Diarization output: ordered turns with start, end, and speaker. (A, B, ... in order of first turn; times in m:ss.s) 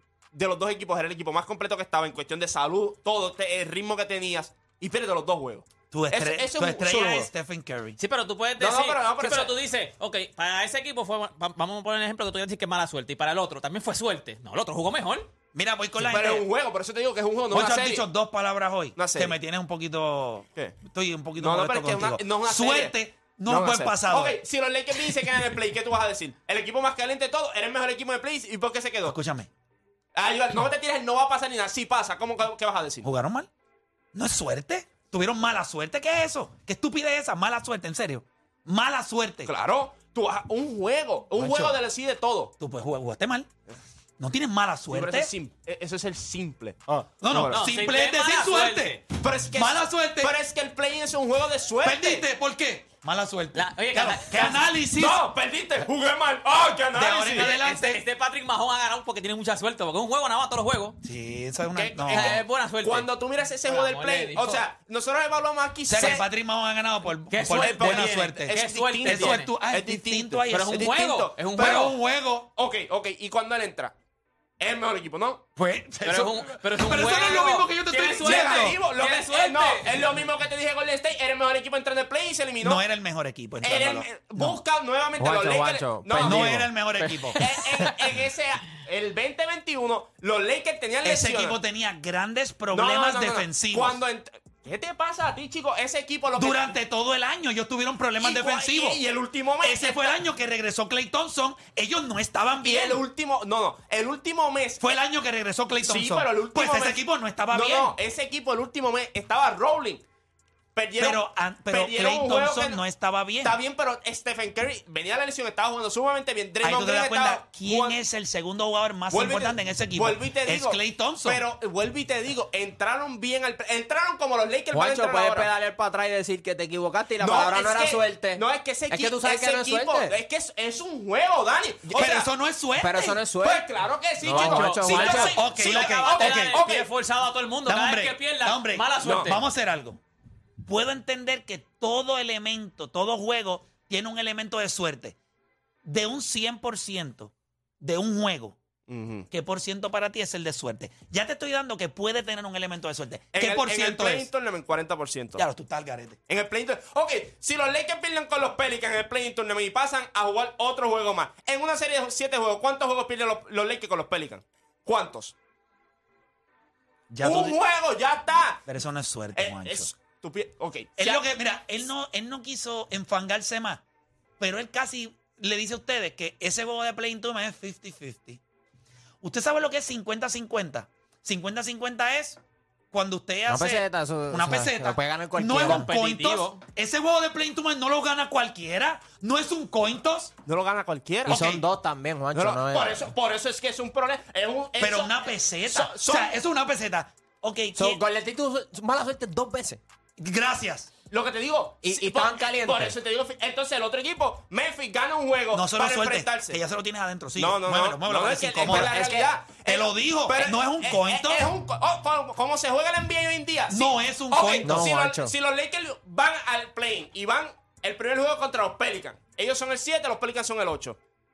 0:00.3-0:07.3 A
0:05.9-0:08.0 B
0:08.0-0:15.3 C
0:08.6-0:09.5 A
0:15.5-0:16.4 B
0:16.0-0:18.0 A
0:17.5-0:24.4 B
0:19.0-0:19.3 A
0:21.4-0:22.9 A
0:23.5-0:29.2 A
0:29.0-0:29.5 B
0:30.1-0:33.1 A
0:33.0-0:33.5 B
0:34.1-0:39.5 B
0:39.4-0:42.5 A
0:41.4-0:41.8 B
0:42.6-0:43.5 B
0:44.2-0:45.3 B
0:44.9-0:47.6 A
0:47.2-0:50.3 B
0:47.5-0:49.0 C
0:49.2-0:52.2 A
0:51.8-0:55.2 B
0:53.5-0:54.6 C
0:55.0-0:57.6 A
0:56.9-0:58.0 B
0:57.4-1:01.0 C
1:01.0-1:02.4 B
1:01.7-1:06.2 A
1:02.1-1:03.1 C
1:03.6-1:04.6 C
1:05.9-1:11.0 B
1:07.3-1:09.5 C
1:07.5-1:11.9 A
1:10.5-1:11.9 C
1:11.6-1:12.5 B
1:12.6-1:13.9 A
1:14.6-1:15.4 A
1:15.6-1:18.8 B
1:16.0-1:20.2 C
1:18.2-1:22.8 A
1:22.6-1:24.6 B
1:23.6-1:26.6 A
1:25.2-1:27.9 D
1:26.2-1:27.4 B
1:27.4-1:31.6 A
1:31.0-1:34.0 B
1:32.7-1:36.7 A
1:36.4-1:39.0 B
1:38.2-1:40.2 A
1:39.6-1:43.0 B
1:42.6-1:44.9 A
1:44.8-1:47.9 B
1:45.8-1:50.0 A
1:50.7-1:52.8 A
1:51.0-1:53.6 B
1:53.4-1:58.0 A
1:56.6-2:01.4 B
1:59.1-2:05.5 A
2:04.7-2:10.1 D
2:07.2-2:12.3 A
2:11.9-2:13.2 B
2:12.8-2:13.6 D
2:13.4-2:16.9 A
2:14.2-2:15.4 D
2:14.3-2:19.4 C
2:15.3-2:16.6 B
2:17.6-2:20.0 B
2:19.0-2:19.4 A
2:20.6-2:25.2 B
2:25.8-2:28.6 B
2:28.9-2:29.3 A
2:29.3-2:34.3 B
2:33.3-2:35.4 A
2:35.4-2:36.2 B
2:36.3-2:45.3 A
2:47.1-2:47.6 B
2:47.2-2:48.6 A
2:48.7-2:49.9 B
2:49.3-2:51.2 A
2:51.0-2:53.8 B
2:54.4-2:58.4 B
2:59.2-3:02.4 B
3:02.9-3:10.3 B
3:03.5-3:05.9 D
3:05.6-3:06.6 C
3:10.4-3:11.4 A
3:11.3-3:11.6 B
3:11.3-3:13.1 D
3:12.3-3:16.3 A
3:14.8-3:18.0 B
3:17.8-3:19.8 D
3:20.2-3:20.9 B
3:21.1-3:26.6 A
3:21.8-3:23.0 D
3:25.5-3:29.0 B
3:27.4-3:41.0 A
3:28.6-3:29.3 D
3:29.6-3:31.5 B
3:33.7-3:34.9 B
3:34.6-3:35.3 D